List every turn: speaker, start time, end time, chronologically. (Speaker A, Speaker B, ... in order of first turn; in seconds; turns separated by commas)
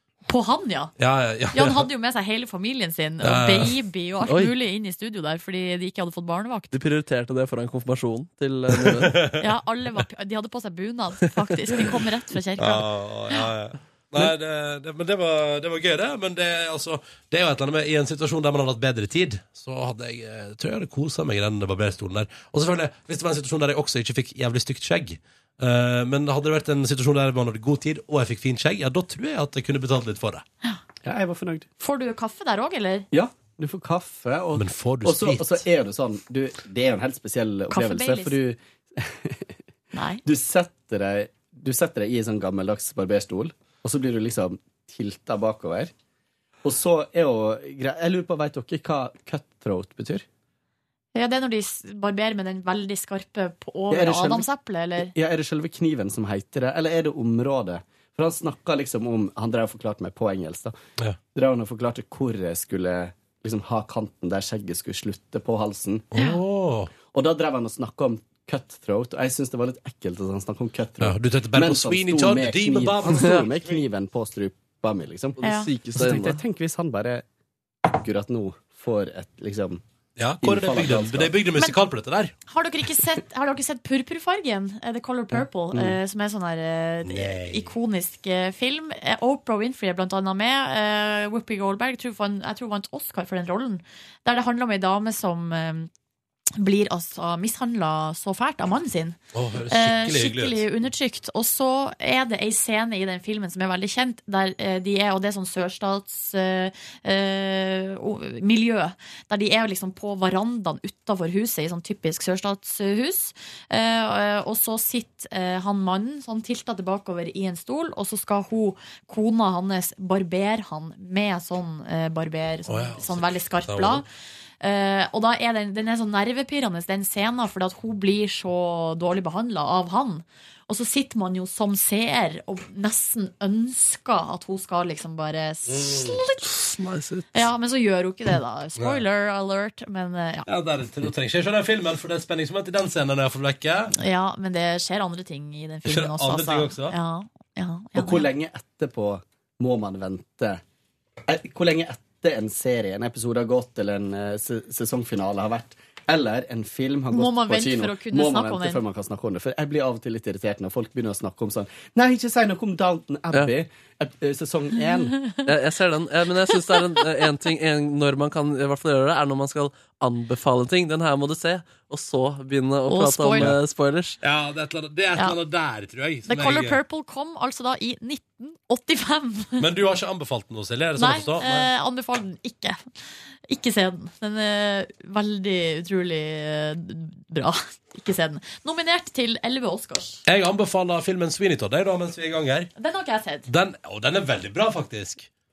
Speaker A: 0.3-0.9, Speaker B: 1.0-1.9, Speaker A: 1.5-6.7, Speaker B: 3.2-3.8, Speaker C: 4.2-4.5, Speaker C: 6.7-9.2, Speaker B: 8.9-9.4, Speaker A: 9.4-13.4, Speaker B: 12.6-30.4, Speaker D: 31.0-31.7, Speaker A: 31.8-33.0, Speaker D: 33.1-39.5, Speaker B: 34.5-35.6, Speaker A: 37.7-38.4, Speaker A: 39.9-40.2, Speaker D: 40.2-45.9, Speaker D: 46.6-50.2, Speaker A: 51.1-55.1, Speaker D: 53.9-60.7, Speaker D: 61.3-66.1, Speaker B: 66.1-66.9, Speaker A: 66.2-66.4, Speaker D: 67.0-75.4, Speaker B: 71.0-73.8, Speaker C: 73.1-73.5, Speaker C: 75.4-76.4, Speaker A: 75.4-75.7, Speaker D: 75.9-77.2, Speaker D: 77.8-79.8, Speaker B: 80.2-82.3, Speaker D: 80.4-81.3, Speaker A: 82.5-95.9, Speaker D: 85.3-86.0, Speaker B: 87.0-87.7, Speaker A: 96.6-99.2, Speaker B: 99.3-100.6, Speaker A: 99.7-124.0, Speaker B: 122.7-124.0, Speaker A: 124.6-136.6, Speaker B: 135.7-136.2, Speaker C: 136.4-137.4, Speaker A: 137.3-140.5, Speaker B: 138.8-139.0, Speaker B: 140.5-143.9, Speaker A: 143.9-148.3, Speaker B: 145.8-146.9, Speaker D: 147.9-150.6, Speaker D: 151.3-165.3, Speaker A: 157.1-158.8, Speaker C: 165.4-174.2, Speaker A: 172.9-173.5, Speaker B: 174.2-176.8, Speaker A: 176.3-179.6, Speaker B: 179.6-181.7, Speaker A: 181.0-182.8, Speaker A: 183.5-190.2, Speaker B: 190.2-192.7, Speaker A: 192.8-193.5, Speaker B: 193.5-195.3